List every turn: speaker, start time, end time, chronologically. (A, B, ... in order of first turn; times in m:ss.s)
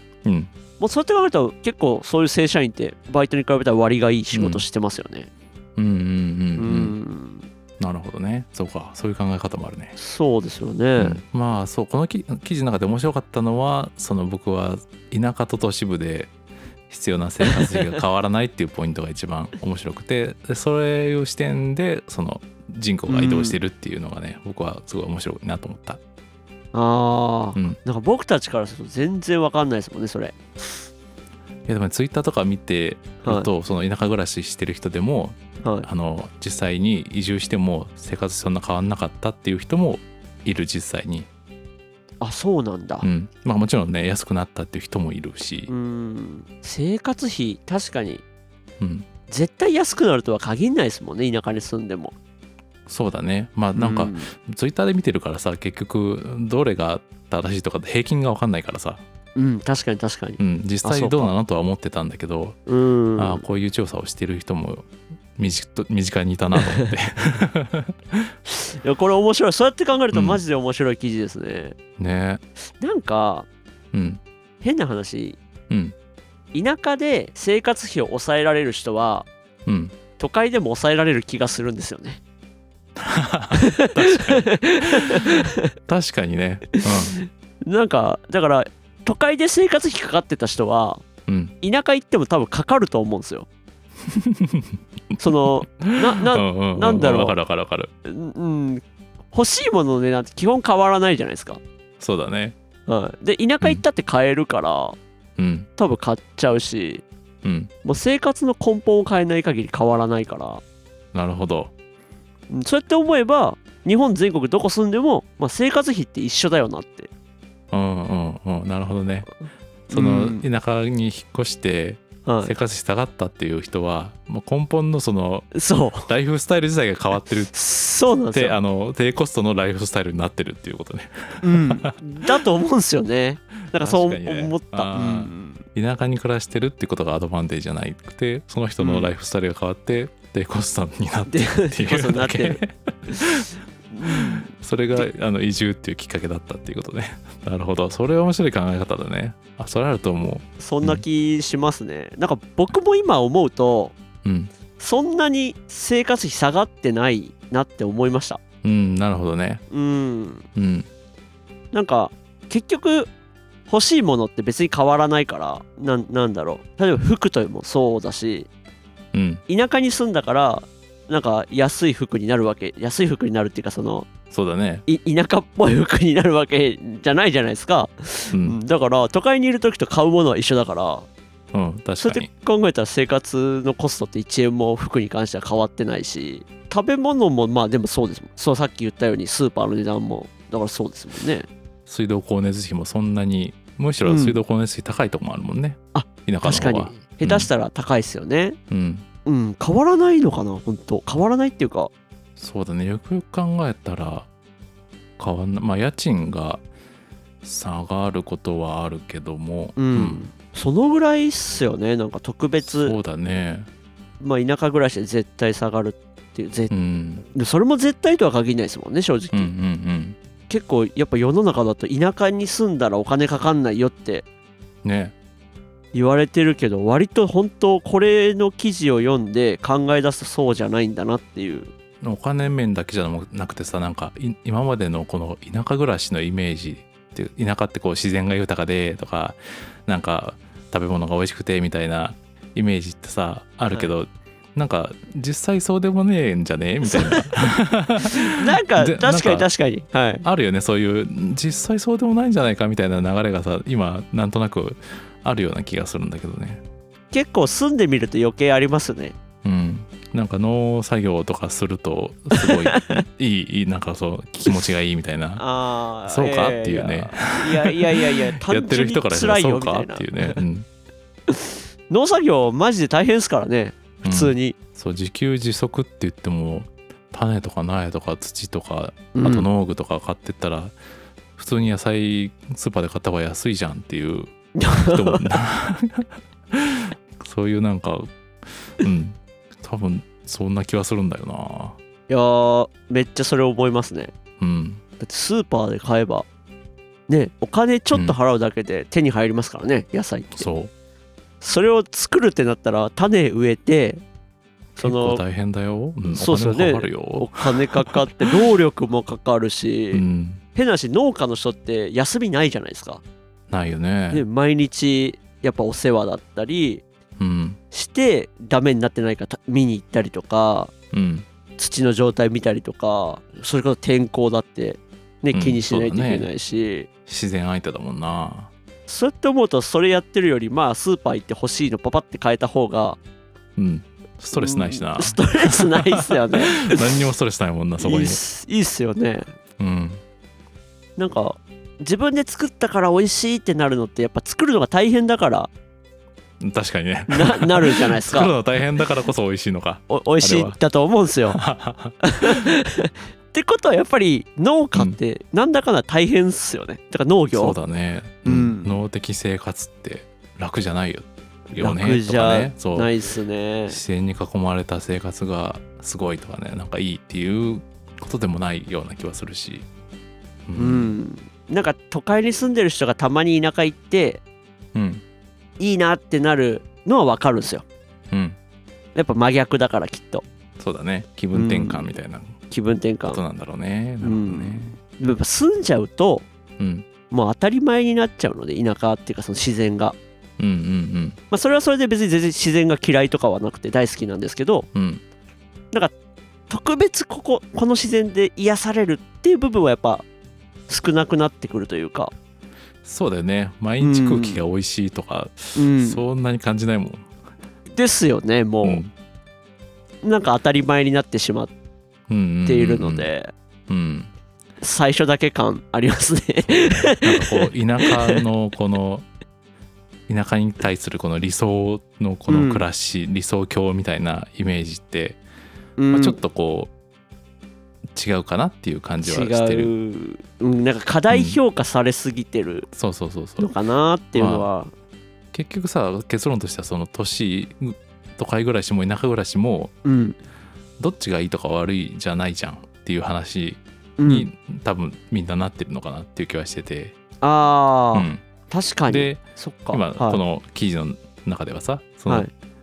0:00.2-0:00.5 A
0:00.8-0:05.3 B
0:04.3-0:04.6 A
0:05.8-0:06.9 A
0:06.6-0:07.5 B
0:07.8-0:10.0 A
0:10.0-0:11.2 B
0:11.0-0:16.3 A
0:16.9-0:26.0 A
0:17.4-0:17.9 B
0:23.1-0:23.6 B
0:26.7-0:30.7 B
0:31.6-0:41.3 A
0:33.2-0:33.5 B
0:42.2-0:43.1 B
0:43.0-0:45.7 A
0:45.7-0:48.2 B
0:48.8-0:49.0 A
0:49.3-0:52.1 B
0:52.9-0:59.0 A
0:53.8-0:54.3 B
0:59.3-1:01.3 B
1:00.4-1:02.6 A
1:02.7-1:03.4 B
1:03.2-1:08.3 A
1:06.6-1:06.9 B
1:08.5-1:11.8 B
1:10.1-1:10.4 A
1:12.0-1:12.4 A
1:12.8-1:13.5 B
1:13.9-1:14.2 A
1:14.6-1:15.4 B
1:15.7-1:15.9 A
1:16.5-1:19.3 B
1:19.6-1:19.9 A
1:20.2-1:22.2 B
1:23.0-1:27.2 A
1:23.5-1:25.7 B
1:26.8-1:31.0 B
1:31.3-1:31.5 A
1:31.6-1:33.5 B
1:34.1-1:37.9 A
1:35.2-1:37.4 B
1:38.0-1:41.6 B
1:42.0-1:42.5 A
1:42.9-1:45.0 B
1:45.4-1:45.7 A
1:45.8-1:47.0 B
1:47.4-1:47.7 A
1:47.8-1:50.6 B
1:51.1-1:51.7 A
1:52.5-1:57.1 B
1:57.7-1:59.3 A
1:59.9-2:07.5 A
1:59.9-2:00.4 B
2:02.2-2:02.5 B
2:05.5-2:06.1 B
2:07.5-2:08.6 B
2:08.3-2:12.4 A
2:11.4-2:15.6 B
2:13.7-2:23.5 A
2:18.8-2:19.1 B
2:21.3-2:25.1 B
2:24.0-2:31.0 A
2:30.6-2:34.0 B
2:34.2-2:34.5 A
2:34.8-2:38.4 B
2:38.6-2:39.6 A
2:39.7-2:40.4 B
2:40.5-2:40.9 A
2:41.7-2:43.1 B
2:43.7-2:48.5 B
2:49.1-2:49.4 A
2:49.5-2:54.1 B
2:54.3-2:54.8 A
2:54.9-3:01.1 B
2:58.3-2:58.6 A
3:01.5-3:02.3 A
3:02.0-3:11.5 B
3:11.8-3:17.5 A
3:14.0-3:14.4 B
3:15.9-3:18.6 B
3:18.7-3:19.0 A
3:19.2-3:21.9 B
3:22.4-3:24.3 A
3:25.2-3:26.6 A
3:27.4-3:30.2 A
3:29.8-3:33.0 B
3:32.6-3:33.7 A
3:34.2-3:36.7 B
3:36.7-3:37.2 A
3:37.3-3:39.5 B
3:39.3-3:40.2 A
3:40.5-3:44.2 B
3:44.8-3:45.1 A
3:45.9-3:51.7 B
3:52.0-4:09.5 A
4:06.8-4:07.3 B
4:08.0-4:10.2 B
4:10.2-4:16.6 A
4:17.1-4:19.2 B
4:19.4-4:25.4 A
4:22.4-4:23.0 B
4:25.4-4:30.4 B
4:26.1-4:30.6 A
4:31.3-4:34.5 B
4:34.0-4:40.8 A
4:39.1-4:39.5 B
4:41.4-4:48.1 A
4:44.6-4:45.3 B
4:48.8-4:51.8 A
4:52.1-4:54.1 B
4:54.4-4:54.8 A
4:55.0-4:56.2 B
4:57.1-5:00.5 B
5:00.3-5:00.7 A
5:01.4-5:04.0 B
5:04.8-5:05.2 B
5:04.8-5:08.4 A
5:06.1-5:10.0 B
5:09.9-5:10.4 A
5:10.5-5:13.0 B
5:13.5-5:14.2 A
5:14.1-5:16.8 B
5:17.2-5:17.6 A
5:17.7-5:20.7 B
5:20.9-5:21.2 A
5:21.6-5:26.9 B
5:25.3-5:26.3 A
5:27.0-5:28.5 A
5:28.9-5:33.0 B
5:33.6-5:38.2 A
5:34.3-5:36.9 B
5:37.8-5:39.3 B
5:39.6-5:40.0 A
5:41.0-5:45.5 B
5:46.4-5:50.6 A
5:47.1-5:48.4 B
5:49.9-5:51.4 B
5:51.3-5:52.4 A
5:52.0-5:57.6 B
5:57.3-6:02.9 A
5:58.2-5:58.8 B
6:01.6-6:03.8 B
6:03.7-6:09.6 A
6:10.5-6:11.0 A
6:10.6-6:14.2 B
6:14.7-6:15.0 A
6:15.6-6:17.6 B
6:18.1-6:18.4 A
6:19.0-6:20.2 B
6:20.6-6:22.4 A
6:21.3-6:21.9 B
6:22.5-6:23.2 B
6:23.1-6:24.8 A
6:24.0-6:26.2 B
6:26.6-6:26.9 A
6:27.1-6:30.0 B
6:30.4-6:31.2 A
6:31.3-6:34.7 B
6:34.7-6:35.0 A
6:36.5-6:40.0 B
6:40.7-6:42.1 B
6:42.8-6:47.0 A
6:43.8-6:44.4 B
6:45.6-6:46.0 B
6:47.7-6:48.8 B
6:48.6-6:48.9 A
6:50.0-6:51.5 B
6:52.1-6:53.1 A
6:52.5-6:53.3 B
6:53.7-6:54.1 A
6:54.6-6:58.2 B
6:56.5-6:59.0 A
7:00.1-7:05.2 A
7:02.3-7:02.6 B
7:05.8-7:06.2 B
7:05.9-7:06.7 A
7:07.9-7:09.7 A
7:09.0-7:12.7 B
7:11.1-7:11.4 A
7:12.7-7:13.5 A
7:13.4-7:14.7 B
7:14.1-7:14.5 A
7:15.3-7:19.7 A
7:19.8-7:20.2 B
7:20.8-7:27.0 A
7:24.0-7:24.3 B
7:27.2-7:30.2 B
7:27.9-7:28.2 A
7:28.9-7:32.3 A